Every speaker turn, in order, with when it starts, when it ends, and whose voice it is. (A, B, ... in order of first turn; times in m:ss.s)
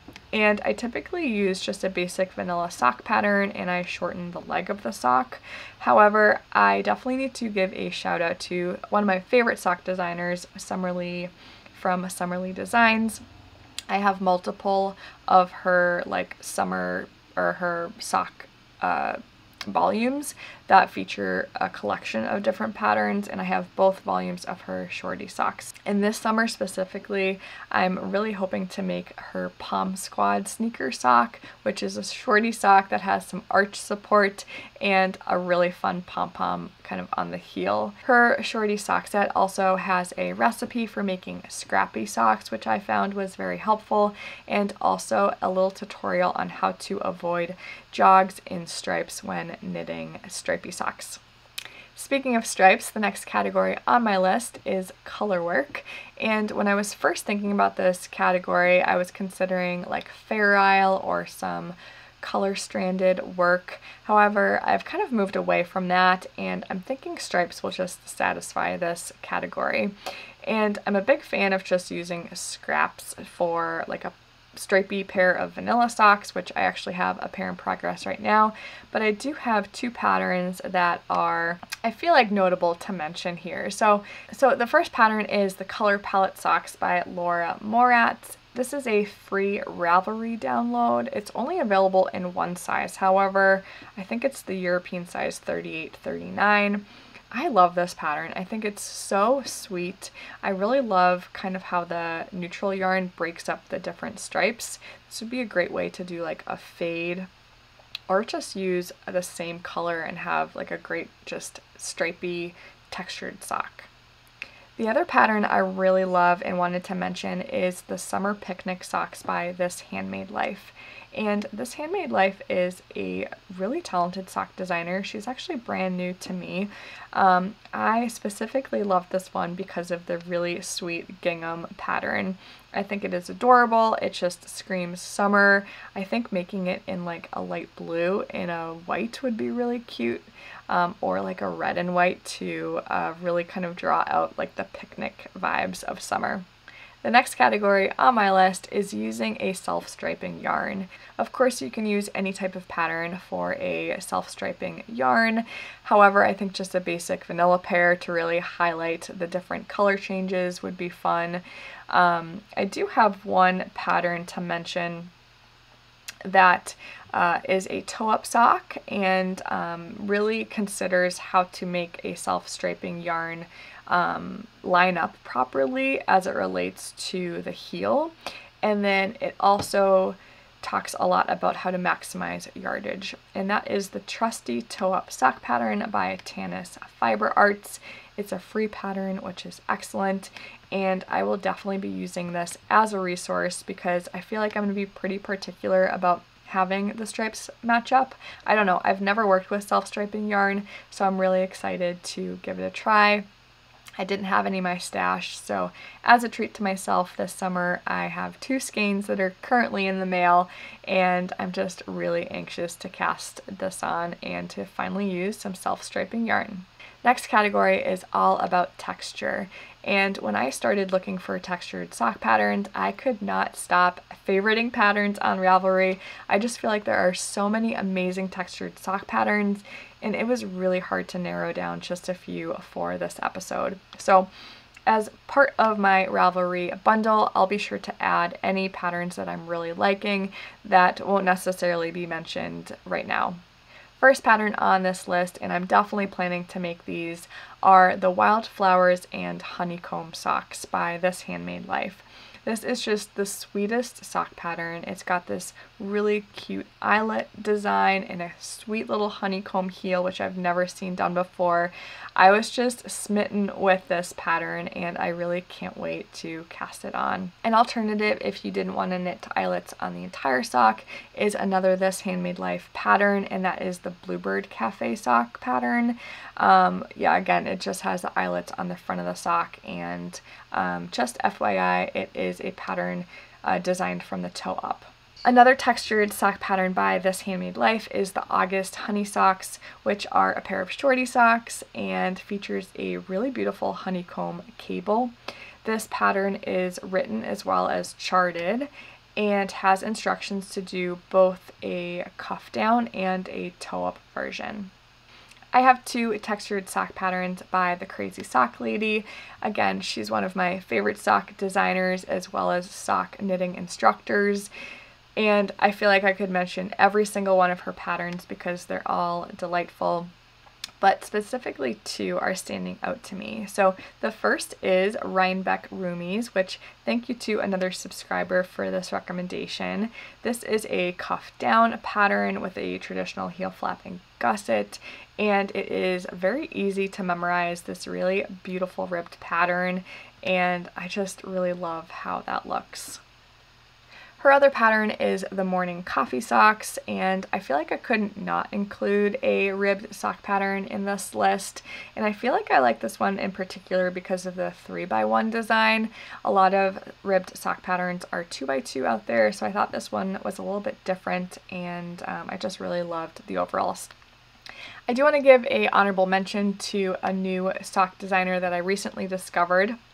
0:00.3-0:13.2 A
0:13.9-0:51.2 A
0:51.9-1:47.3 A
1:48.1-1:53.9 A
1:54.8-2:26.4 A
2:27.0-2:45.1 A
2:46.2-3:23.2 A
3:24.0-3:54.3 A
3:54.9-4:03.4 A
4:04.0-4:55.1 A
4:55.6-5:04.7 A
5:05.5-5:14.5 A
5:15.2-5:20.1 A
5:20.8-5:43.0 A
5:44.2-6:03.9 A
6:04.9-6:09.8 A